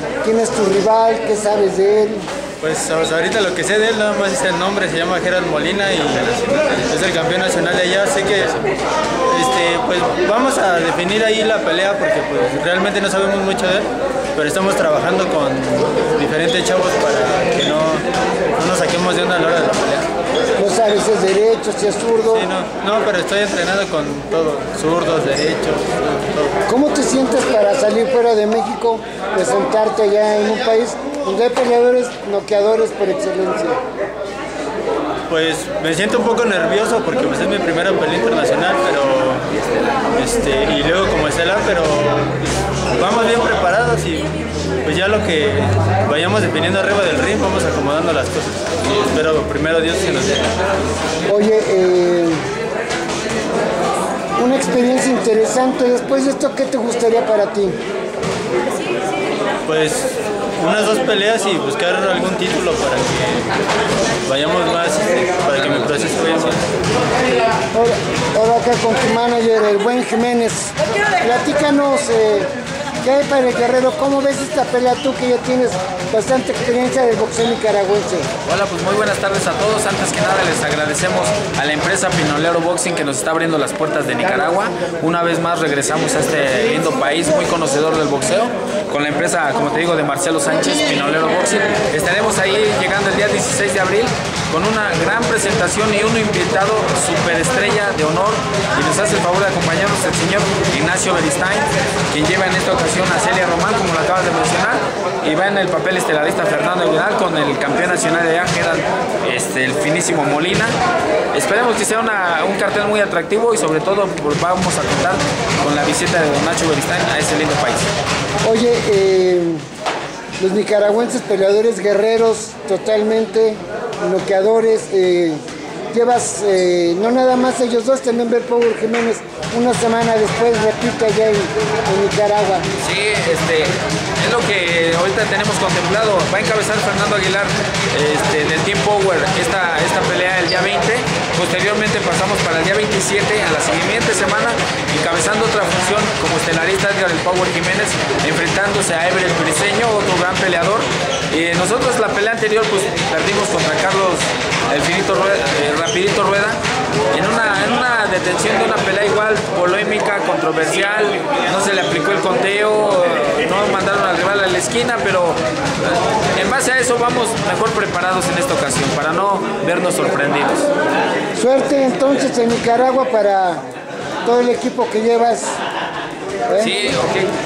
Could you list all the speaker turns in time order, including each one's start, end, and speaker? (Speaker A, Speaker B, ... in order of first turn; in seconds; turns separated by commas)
Speaker A: 0.2-2.2, Speaker B: 2.6-8.7, Speaker B: 9.3-20.1, Speaker A: 20.6-22.5, Speaker B: 22.3-26.6, Speaker A: 26.7-33.8, Speaker B: 35.3-39.5, Speaker B: 40.1-44.3, Speaker B: 44.8-50.5, Speaker A: 51.3-52.4, Speaker A: 54.4-57.8, Speaker B: 59.6-63.5, Speaker B: 64.2-66.7, Speaker A: 67.7-72.5, Speaker A: 73.0-78.3, Speaker C: 78.5-110.8, Speaker C: 111.3-117.9, Speaker A: 118.5-119.6, Speaker A: 120.4-125.4, Speaker A: 125.9-132.7, Speaker C: 132.8-156.6, Speaker C: 157.1-170.7, Speaker A: 171.4-173.6, Speaker A: 174.2-175.6, Speaker A: 176.5-176.7, Speaker C: 176.6-177.3